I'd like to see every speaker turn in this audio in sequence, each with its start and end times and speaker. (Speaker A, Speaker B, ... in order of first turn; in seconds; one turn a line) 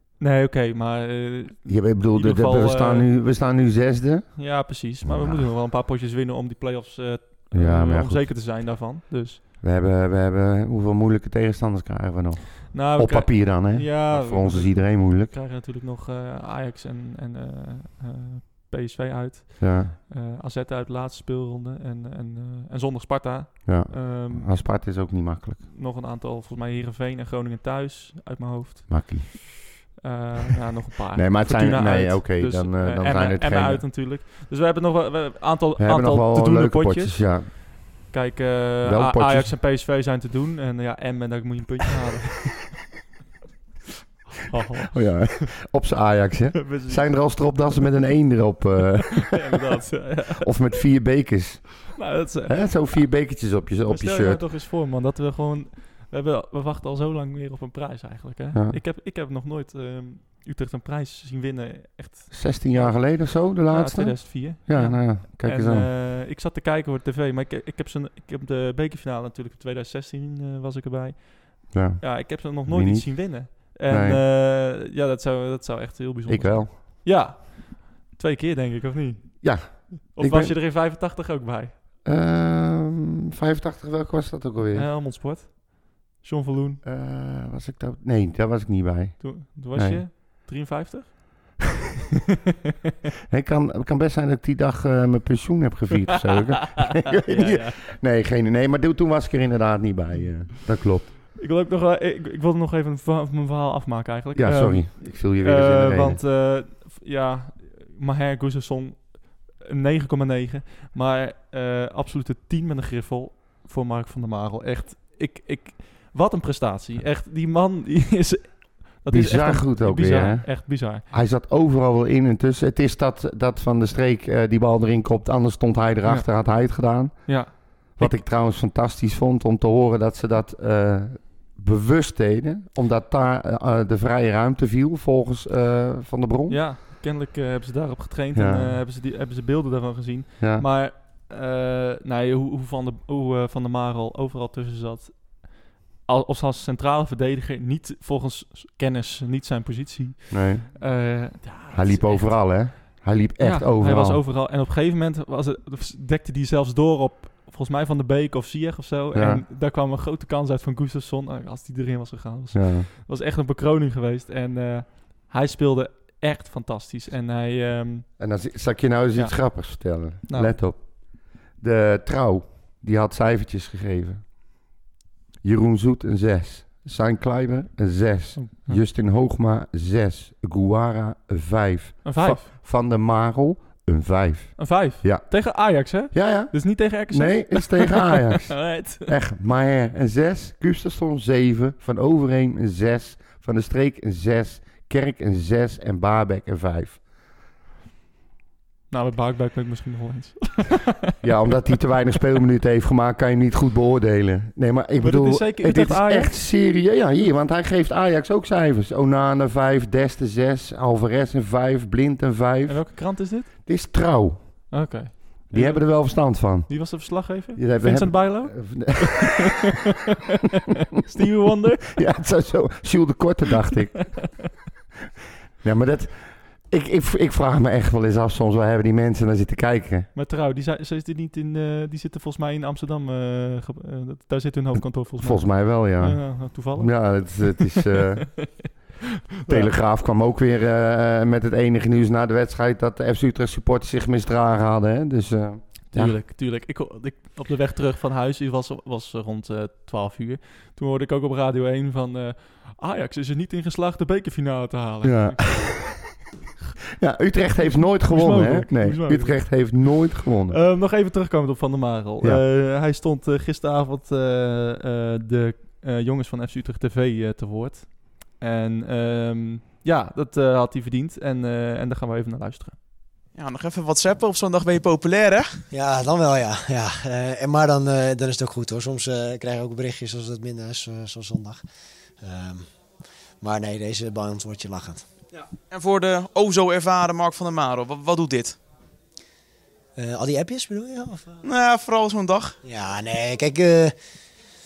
Speaker A: 0.2-3.1
Speaker B: 1.7-4.5
Speaker A: 4.4-9.4
Speaker B: 5.0-5.5
Speaker B: 7.5-8.3
Speaker B: 9.6-15.3
Speaker A: 12.7-24.9
Speaker B: 19.6-19.9
Speaker B: 23.7-25.6
Speaker A: 25.6-29.3
Speaker B: 28.9-29.9
Speaker A: 30.0-42.6
Speaker B: 31.1-33.9
Speaker B: 35.8-37.5
Speaker B: 38.9-39.6
Speaker A: 44.5-45.5
Speaker B: 44.9-54.4
Speaker A: 46.5-47.6
Speaker A: 49.3-50.5
Speaker A: 52.0-52.9
Speaker A: 53.9-81.8
Speaker B: 58.5-58.8
Speaker B: 62.3-65.9
Speaker B: 71.7-74.2
Speaker B: 76.3-76.7
Speaker B: 79.4-80.5
Speaker B: 82.0-84.9
Speaker A: 84.7-86.8
Speaker B: 86.8-90.0
Speaker A: 89.2-91.5
Speaker B: 93.3-101.1
Speaker A: 97.2-97.9
Speaker A: 101.4-121.0
Speaker B: 104.4-106.2
Speaker B: 119.1-136.6
Speaker A: 127.3-128.2
Speaker A: 136.5-152.7
Speaker B: 138.3-138.8
Speaker B: 140.4-140.7
Speaker B: 150.3-150.7
Speaker B: 151.7-154.2
Speaker A: 153.4-168.1
Speaker B: 159.2-159.4
Speaker B: 162.5-162.9
Speaker B: 168.2-174.3
Speaker A: 169.2-170.6
Speaker B: 175.4-185.4
Speaker A: 178.4-178.8
Speaker A: 182.1-182.5
Speaker A: 184.6-189.2
Speaker B: 186.1-197.0
Speaker A: 198.9-201.1
Speaker B: 201.2-214.7
Speaker A: 205.0-206.4
Speaker A: 212.7-213.5
Speaker A: 214.7-219.4
Speaker B: 215.5-219.5
Speaker A: 221.0-222.0
Speaker B: 221.9-224.3
Speaker B: 225.6-230.1
Speaker A: 230.2-238.7
Speaker B: 235.2-238.7
Speaker A: 239.4-239.7
Speaker B: 239.5-246.2
Speaker A: 245.9-255.9
Speaker B: 255.0-256.0
Speaker B: 257.0-260.6
Speaker A: 257.7-259.9
Speaker A: 260.5-272.8
Speaker C: 273.4-275.6
Speaker D: 275.7-281.6
Speaker D: 282.2-282.7
Speaker D: 283.4-285.1
Speaker C: 285.7-288.6
Speaker D: 290.0-291.4
Speaker C: 291.4-292.6
Speaker D: 292.6-293.9